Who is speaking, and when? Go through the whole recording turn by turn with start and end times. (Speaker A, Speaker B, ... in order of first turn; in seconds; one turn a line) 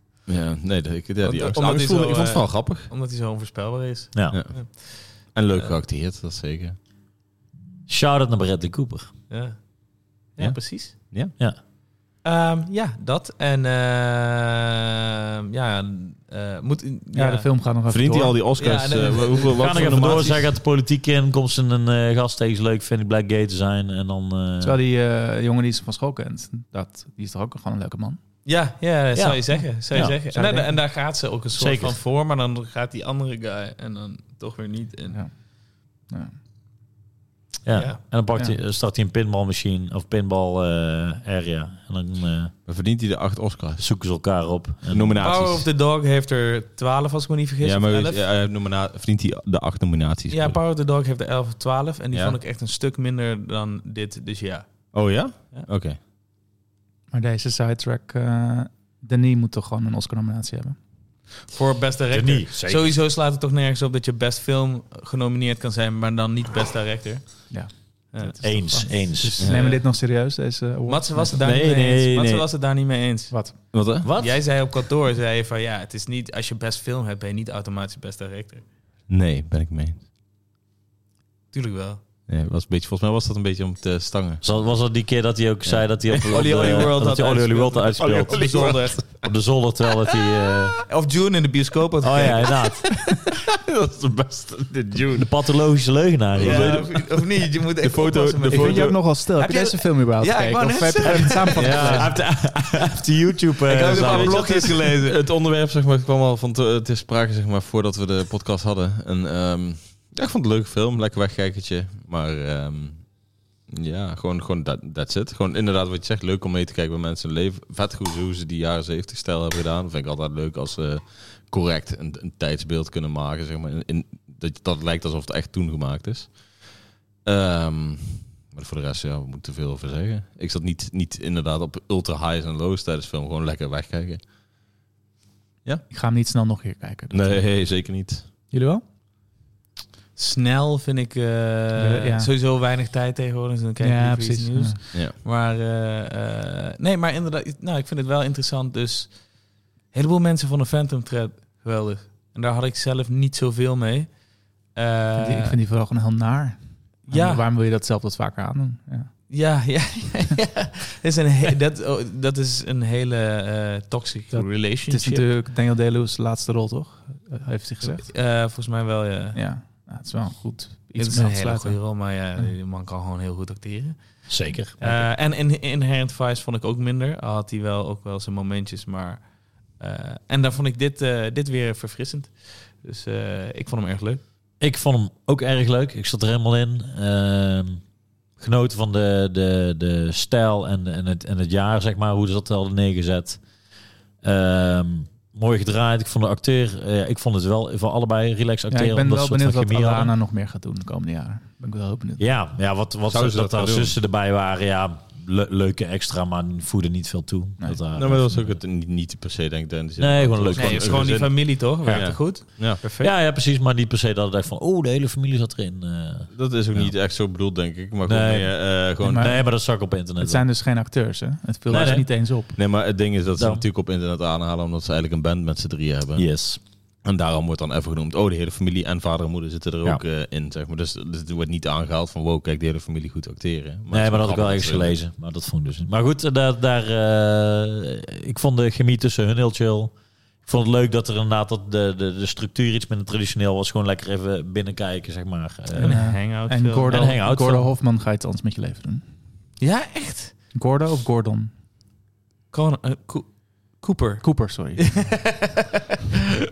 Speaker A: 0.3-2.9
Speaker B: 1.2-5.8
Speaker A: 4.3-6.8
Speaker C: 7.9-9.1
Speaker B: 9.3-9.6
Speaker B: 10.3-10.9
Speaker A: 10.4-11.3
Speaker B: 12.2-17.5
Speaker D: 17.1-18.4
Speaker A: 17.9-20.4
Speaker B: 18.6-20.4
Speaker C: 19.6-24.8
Speaker D: 24.6-28.2
Speaker B: 28.4-35.2
Speaker C: 29.1-30.2
Speaker D: 29.5-30.8
Speaker C: 31.6-32.0
Speaker D: 36.1-36.3
Speaker C: 37.6-42.5
Speaker A: 42.6-43.8
Speaker C: 43.8-45.2
Speaker A: 44.9-45.6
Speaker B: 45.2-48.2
Speaker A: 47.6-50.6
Speaker B: 50.3-54.7
Speaker A: 54.9-56.0
Speaker D: 57.1-60.8
Speaker B: 61.5-67.5
Speaker C: 62.1-63.0
Speaker D: 67.5-71.4
Speaker C: 68.4-69.4
Speaker A: 69.4-69.7
Speaker B: 69.4-69.8
Speaker B: 70.9-73.4
Speaker A: 71.4-72.4
Speaker C: 71.5-72.2
Speaker A: 73.7-74.1
Speaker C: 74.0-74.4
Speaker B: 74.2-78.6
Speaker A: 79.1-80.0
Speaker B: 81.5-82.0
Speaker A: 82.3-84.4
Speaker C: 84.4-90.8
Speaker A: 85.7-86.8
Speaker B: 86.2-89.1
Speaker A: 88.0-89.2
Speaker B: 90.9-92.7
Speaker C: 92.0-92.8
Speaker A: 93.0-95.3
Speaker C: 95.1-96.8
Speaker A: 96.3-99.0
Speaker B: 96.4-101.8
Speaker D: 98.5-102.2
Speaker C: 101.1-104.6
Speaker A: 101.5-102.2
Speaker B: 103.7-105.2
Speaker A: 103.7-113.0
Speaker A: 113.7-126.7
Speaker A: 127.2-134.2
Speaker D: 135.9-137.5
Speaker A: 137.1-138.3
Speaker D: 138.5-138.8
Speaker B: 140.2-149.2
Speaker D: 141.8-142.3
Speaker D: 143.8-144.8
Speaker B: 149.9-154.1
Speaker B: 154.7-155.6
Speaker D: 155.2-159.1
Speaker B: 157.1-157.4
Speaker B: 159.3-165.3
Speaker D: 164.3-168.0
Speaker B: 167.8-169.4
Speaker D: 169.3-171.8
Speaker B: 171.0-184.2
Speaker C: 174.3-174.8
Speaker C: 184.6-187.8
Speaker C: 188.4-193.4
Speaker C: 194.2-200.1
Speaker D: 198.7-202.3
Speaker C: 202.2-208.6
Speaker A: 203.1-203.9
Speaker A: 207.9-212.8
Speaker C: 210.0-211.0
Speaker B: 210.5-213.1
Speaker C: 211.8-216.9
Speaker A: 216.3-219.4
Speaker C: 218.0-220.4
Speaker D: 219.0-219.5
Speaker D: 220.2-222.5
Speaker C: 221.7-222.1
Speaker A: 221.7-226.4
Speaker C: 223.4-223.6
Speaker C: 226.2-226.6
Speaker A: 227.0-234.9
Speaker C: 233.9-239.9
Speaker C: 240.4-246.0
Speaker B: 245.8-247.2
Speaker D: 245.8-249.0
Speaker C: 246.9-247.7
Speaker B: 249.6-250.3
Speaker D: 250.5-251.5
Speaker B: 252.5-256.2
Speaker D: 254.2-255.2